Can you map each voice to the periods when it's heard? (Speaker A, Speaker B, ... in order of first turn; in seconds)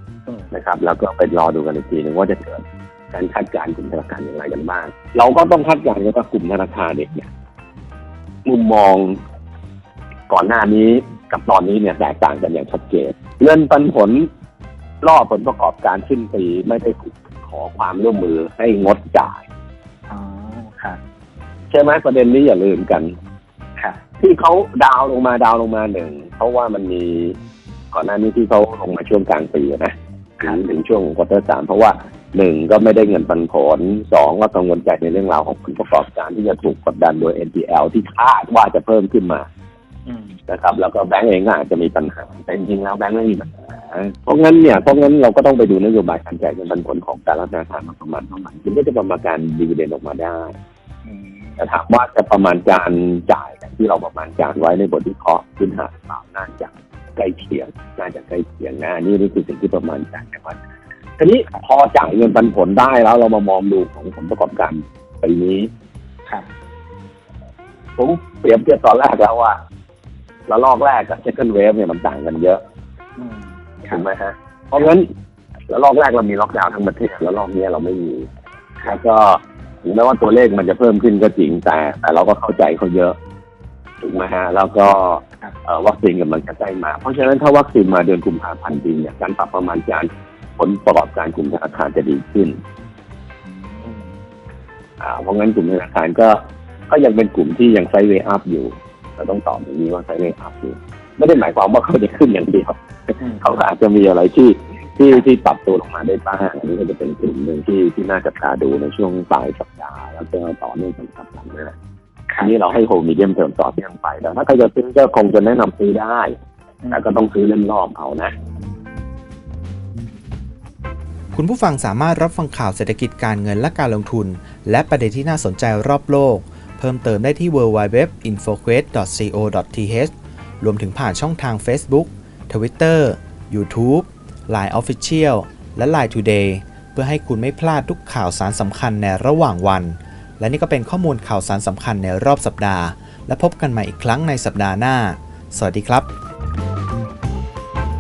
Speaker A: 0.5-7.3, 8.4-9.2, 10.3-14.3, 15.0-19.4, 21.7-23.1, 24.1-27.4, 27.9-39.5, 40.5-50.5, 51.6-60.6, 61.2-65.7, 68.0-69.6, 70.5-72.6, 73.8-75.1, 75.7-78.3, 78.9-83.2, 84.0-92.6, 95.0-111.7, 112.4-116.3, 116.9-118.3
Speaker B: 20.1-21.0, 23.8-24.1, 40.1-40.4, 51.1-51.6, 73.2-74.0, 93.5-94.1
Speaker C: 121.3-146.1